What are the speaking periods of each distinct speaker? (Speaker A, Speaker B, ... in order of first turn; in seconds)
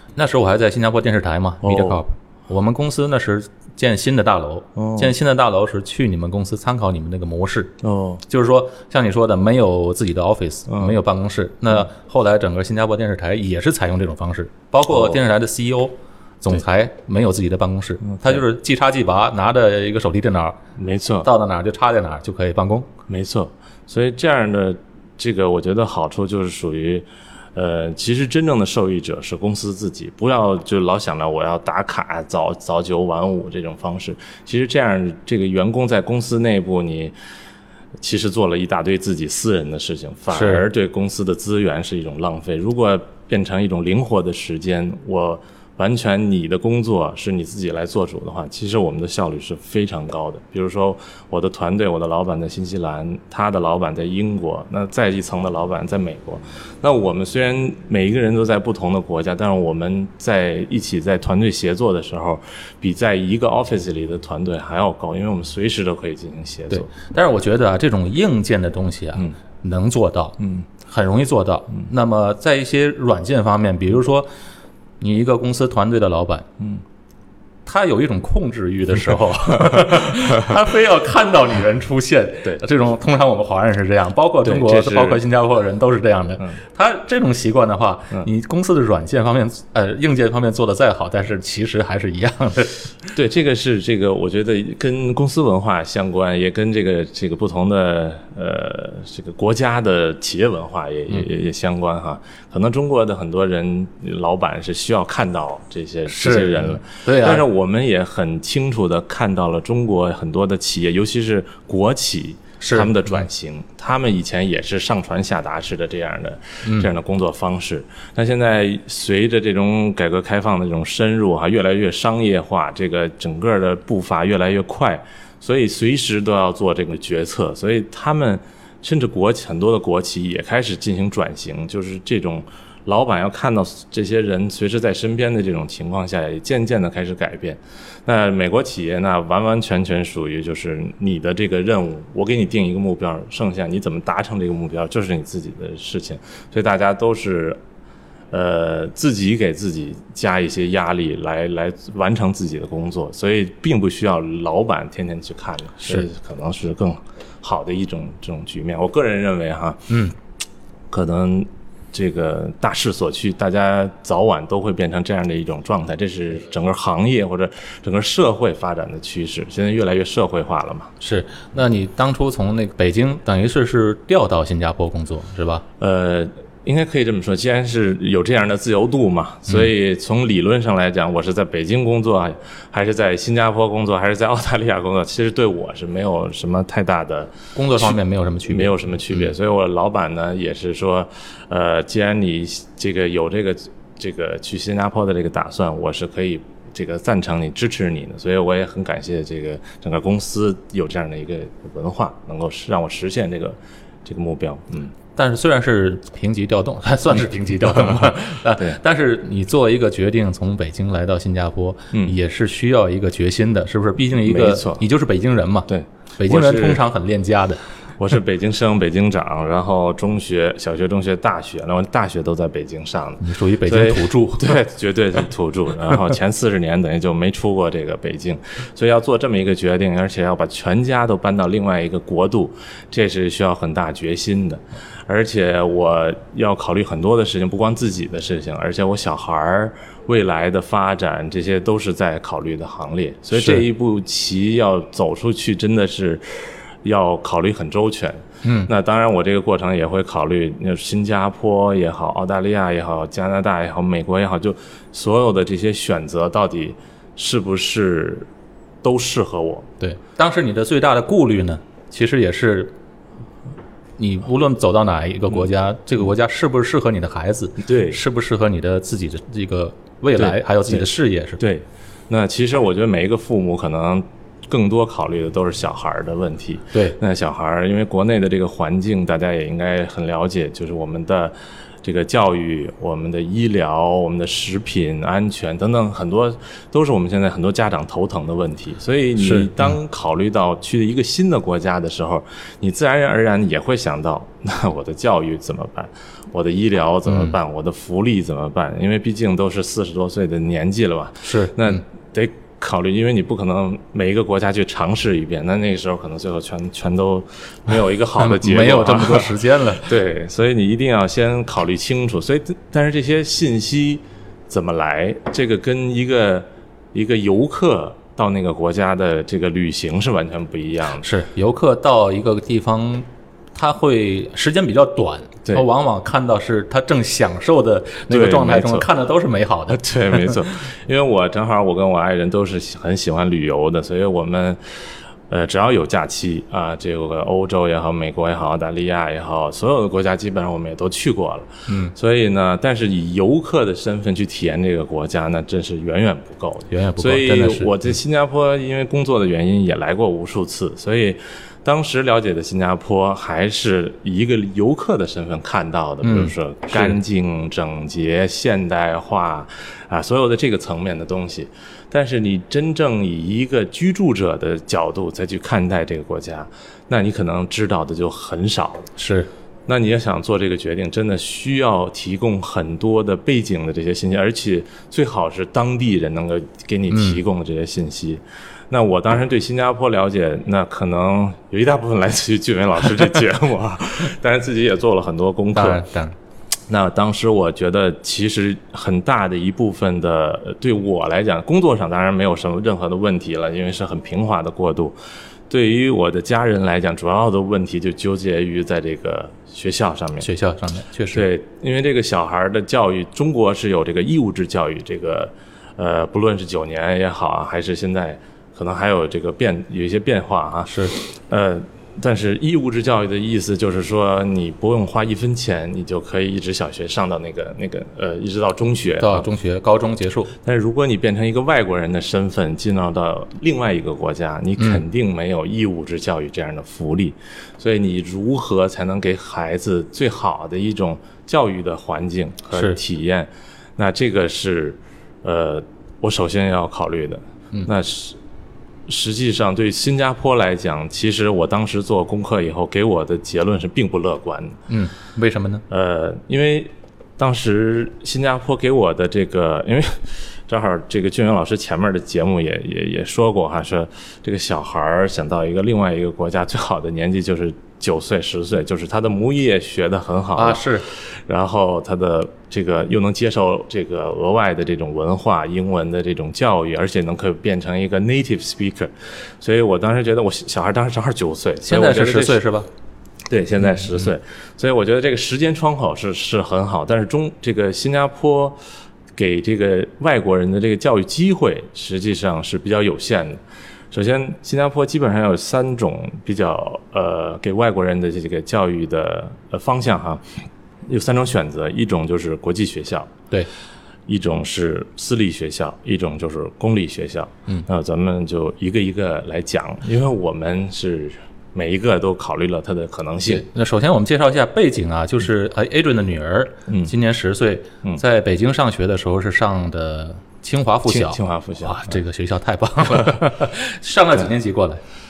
Speaker A: 0.2-7.8, 8.3-20.6, 21.2-22.9, 40.3-40.6, 66.7-74.3, 75.0-76.5, 77.7-92.8, 106.1-107.4, 112.6-113.3, 116.6-116.9, 159.9-160.2, 171.0-175.6, 187.6-188.8, 205.2-217.6, 223.2-224.6, 243.3-243.7, 248.4-248.7, 259.8-262.8, 264.0-271.4, 289.2-289.8, 297.1-297.4, 301.2-301.8, 308.2-309.9, 321.0-330.3, 341.7-341.9, 346.7-347.7, 356.0-357.0, 369.0-369.3, 376.9-377.2, 385.5-386.1, 400.2-401.3, 410.7-410.9, 419.0-420.3, 424.6-424.8, 444.7-445.6, 460.4-460.9, 471.6-472.7, 503.2-514.8
Speaker B: 1.6-2.0, 4.8-5.2, 7.8-8.2, 10.7-11.0, 14.9-15.2, 18.1-18.4, 20.8-21.3, 23.1-37.1, 38.0-67.0, 70.4-70.7, 79.6-80.5, 84.5-85.2, 93.1-147.6, 148.3-159.9, 160.9-170.9, 175.8-188.0, 188.5-204.9, 214.2-214.8, 215.7-216.8, 218.0-258.3, 258.8-259.7, 267.6-268.0, 270.2-270.9, 271.4-321.1, 328.1-328.9, 329.7-334.6, 335.3-368.9, 369.7-385.9, 386.7-394.9, 395.5-400.3, 401.1-419.3, 420.4-438.2, 438.9-444.6, 445.7-472.4, 473.3-478.6, 479.2-490.2, 490.9-493.1, 494.1-503.4, 506.7-506.9, 510.9-512.0